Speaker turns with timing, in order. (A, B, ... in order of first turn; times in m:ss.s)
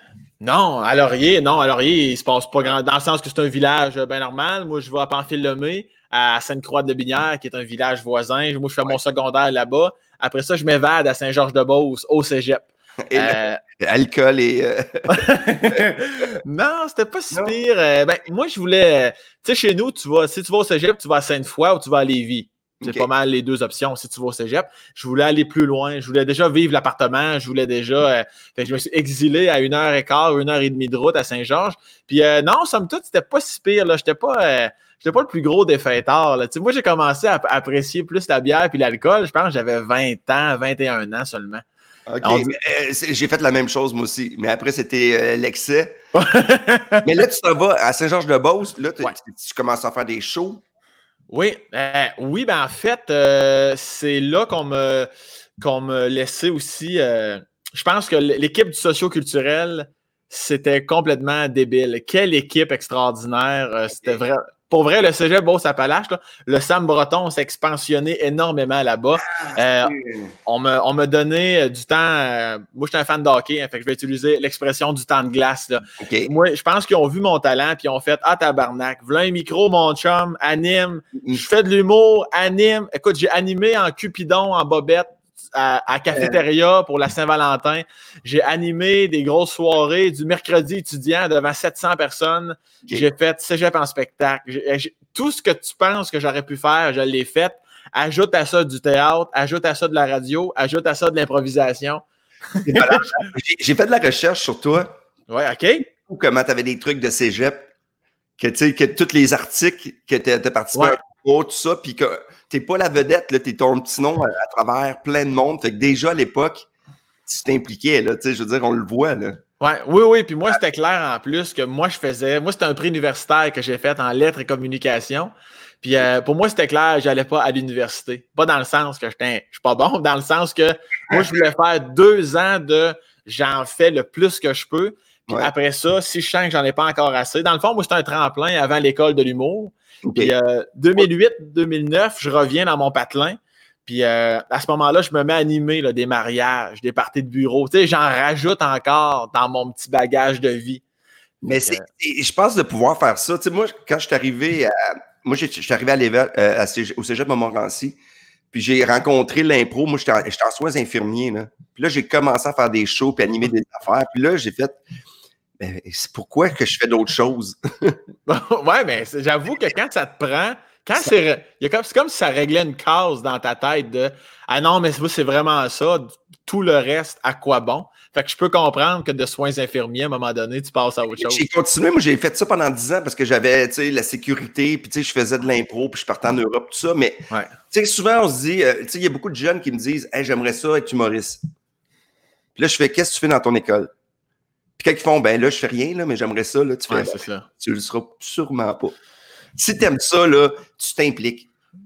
0:00.4-0:13.6 A
0:13.1-0:15.8 B
0:15.1-0:41.6 A
0:22.8-0:23.1 B
0:42.1-0:46.0 B
0:42.2-0:42.5 A
0:46.1-0:47.0 A
0:47.0-0:50.6 B
0:51.3-1:09.9 A
1:09.3-1:10.3 B
1:10.4-1:42.0 A
1:16.0-1:16.3 B
1:21.1-1:21.4 B
1:26.1-1:26.4 B
1:42.5-1:43.3 A
1:42.6-1:44.9 B
1:45.3-1:45.8 A
1:45.9-1:47.6 B
1:48.4-1:56.7 B
1:57.2-1:59.4 B
1:59.6-2:30.8 A
2:20.0-2:20.3 B
2:31.4-2:38.0 B
2:38.5-2:44.8 B
2:45.6-2:48.0 B
2:48.3-3:01.4 A
3:01.2-3:11.4 B
3:12.6-3:13.9 B
3:14.8-3:19.0 B
3:16.9-3:17.4 A
3:19.6-3:21.5 B